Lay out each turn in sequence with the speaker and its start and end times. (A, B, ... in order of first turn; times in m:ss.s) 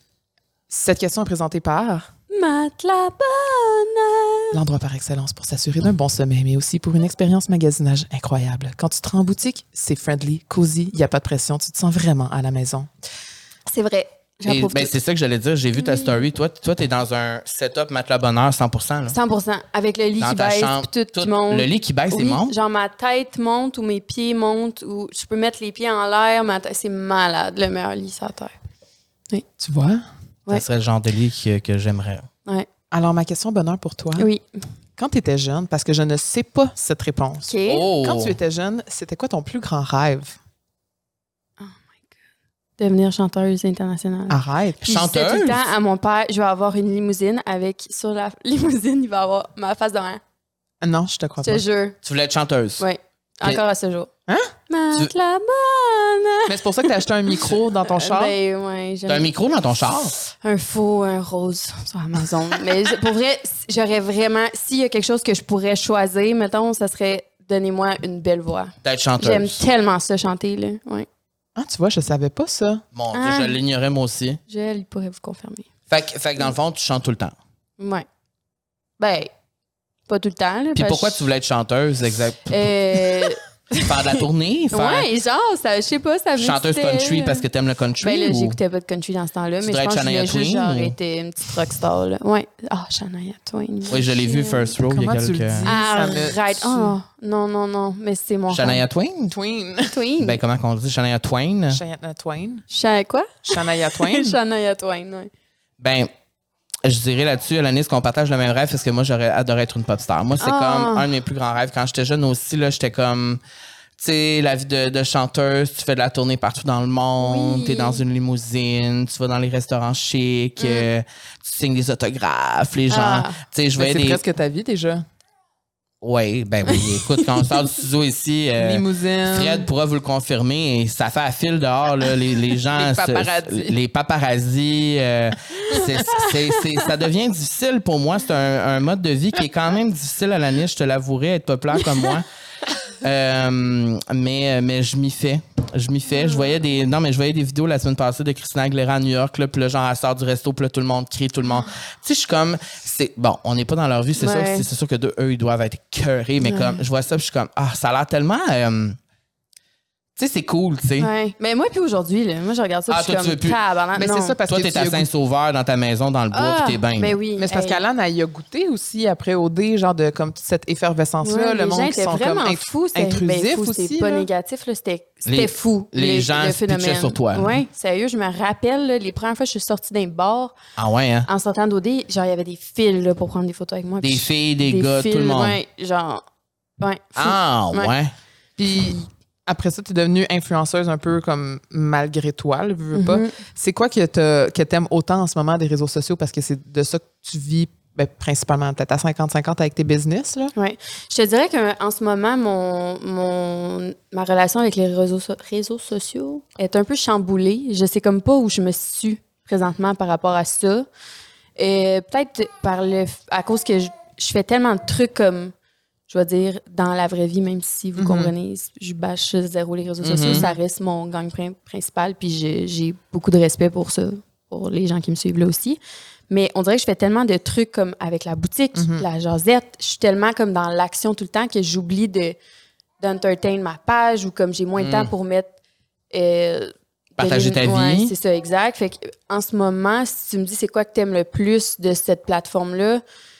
0:00.7-0:02.1 A
0:02.3-0:04.6 B
0:04.5-0:12.9 A
0:13.7-0:14.9 B
0:14.4-0:19.2 C
0:15.8-0:16.2 B
0:19.1-0:28.5 B
0:20.2-0:22.5 C
0:29.6-0:30.0 A
0:30.5-0:32.3 C
0:32.9-0:34.3 A
0:34.2-0:34.5 B
0:35.0-0:40.4 A
0:37.5-0:37.9 B
0:37.7-0:38.4 C
0:42.8-0:50.2 B
0:44.3-0:44.8 A
0:44.8-0:45.6 C
0:50.8-0:51.6 A
0:51.4-0:52.0 B
0:52.0-0:52.9 C
0:52.8-0:54.1 B
0:54.3-0:54.5 A
0:54.7-0:59.3 B
0:56.5-0:58.4 A
0:59.1-1:00.1 C
1:00.2-1:11.1 B
1:08.8-1:09.6 C
1:11.6-1:12.8 A
1:12.9-1:14.4 C
1:13.1-1:13.6 B
1:14.5-1:15.7 B
1:15.9-1:17.4 C
1:17.8-1:18.1 B
1:19.0-1:19.3 B
1:20.1-1:21.3 B
1:20.8-1:23.3 C
1:22.5-1:27.5 B
1:23.8-1:25.1 C
1:26.4-1:28.6 C
1:28.0-1:34.8 B
1:29.6-1:31.0 C
1:33.9-1:35.7 C
1:34.9-1:37.0 A
1:35.6-1:38.8 B
1:38.5-1:39.4 C
1:39.3-1:40.0 A
1:39.9-1:40.4 B
1:40.2-1:41.8 C
1:41.7-1:42.6 A
1:42.7-1:45.3 B
1:43.5-1:44.4 A
1:45.8-1:46.1 C
1:46.8-1:53.4 C
1:50.4-1:51.1 B
1:54.0-2:04.2 C
1:57.2-1:58.0 B
2:00.6-2:00.9 B
2:02.9-2:03.4 B
2:03.8-2:05.0 A
2:06.0-2:22.3 C
2:06.7-2:07.5 B
2:08.6-2:09.7 A
2:12.7-2:13.8 A
2:15.7-2:16.9 B
2:23.0-2:39.0 C
2:34.2-2:34.7 B
2:36.4-2:36.8 B
2:40.2-2:41.1 C
2:41.0-2:44.4 B
2:42.9-2:43.6 C
2:44.0-2:45.1 A
2:44.5-2:47.2 C
2:46.3-2:47.8 B
2:47.4-2:54.3 A
2:51.2-3:00.6 B
2:55.2-2:57.6 C
3:00.8-3:01.3 C
3:01.3-3:06.2 B
3:04.0-3:05.6 C
3:06.8-3:07.9 B
3:07.2-3:08.1 C
3:08.6-3:20.5 A
3:12.9-3:13.3 B
3:20.6-3:30.9 B
3:31.6-3:35.5 B
3:36.1-3:52.4 B
3:38.0-3:38.3 A
3:40.0-3:40.4 C
3:40.2-3:40.6 A
3:48.8-3:49.0 A
3:53.0-3:55.5 B
3:54.8-3:55.1 C
3:56.1-4:03.0 B
3:57.2-3:58.1 C